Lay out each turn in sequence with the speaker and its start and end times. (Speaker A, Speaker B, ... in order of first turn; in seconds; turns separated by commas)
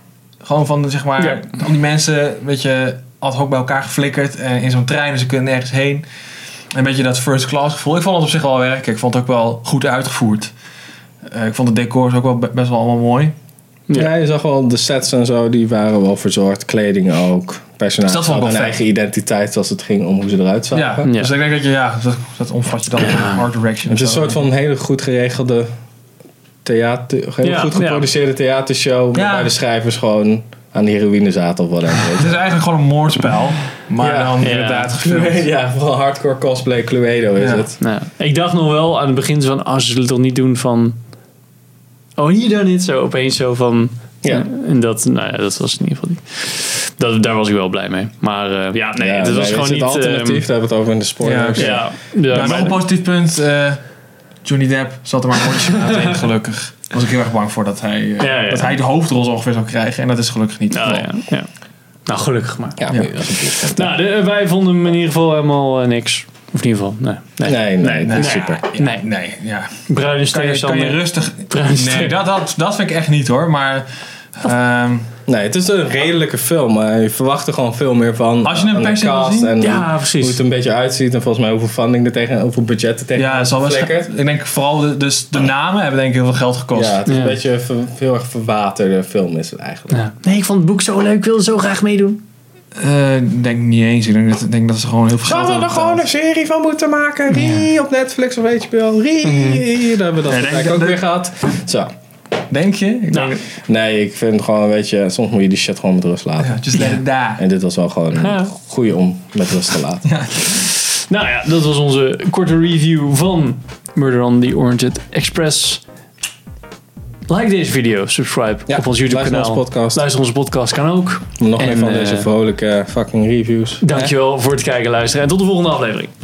Speaker A: 0.4-6.0, Speaker A: 6.7-10.5, Speaker A: 11.2-13.3, Speaker B: 13.9-21.1, Speaker A: 18.0-18.8, Speaker A: 20.7-24.4, Speaker C: 21.0-21.3, Speaker C: 23.0-23.4, Speaker B: 23.9-25.7, Speaker B: 26.6-32.4, Speaker C: 27.4-28.1, Speaker A: 29.1-29.5, Speaker A: 32.1-35.5, Speaker B: 34.0-37.8, Speaker C: 34.4-34.9, Speaker A: 37.4-37.6, Speaker C: 37.8-41.0, Speaker C: 42.2-50.4, Speaker B: 49.0-52.5, Speaker A: 51.2-53.8, Speaker C: 51.5-52.8, Speaker A: 54.4-61.1, Speaker C: 58.2-58.8, Speaker C: 60.7-61.5, Speaker C: 62.1-62.8, Speaker B: 62.8-63.9, Speaker C: 63.6-69.0, Speaker B: 67.4-68.6, Speaker A: 68.0-75.1, Speaker C: 69.9-72.1, Speaker B: 75.2-84.1, Speaker A: 78.4-79.6, Speaker C: 79.6-80.4, Speaker A: 83.1-87.0, Speaker B: 86.7-90.0, Speaker C: 87.0-87.4, Speaker C: 89.9-92.2, Speaker A: 92.8-96.0, Speaker B: 95.2-101.9, Speaker C: 97.3-97.6, Speaker C: 99.2-99.6, Speaker A: 100.3-101.0, Speaker A: 102.5-103.5, Speaker C: 103.1-103.4, Speaker B: 103.6-110.1, Speaker A: 106.4-107.4, Speaker C: 108.2-108.5, Speaker A: 110.0-110.6, Speaker C: 110.7-115.8, Speaker C: 117.3-122.3, Speaker B: 118.7-120.0, Speaker B: 121.4-124.1, Speaker C: 123.8-126.1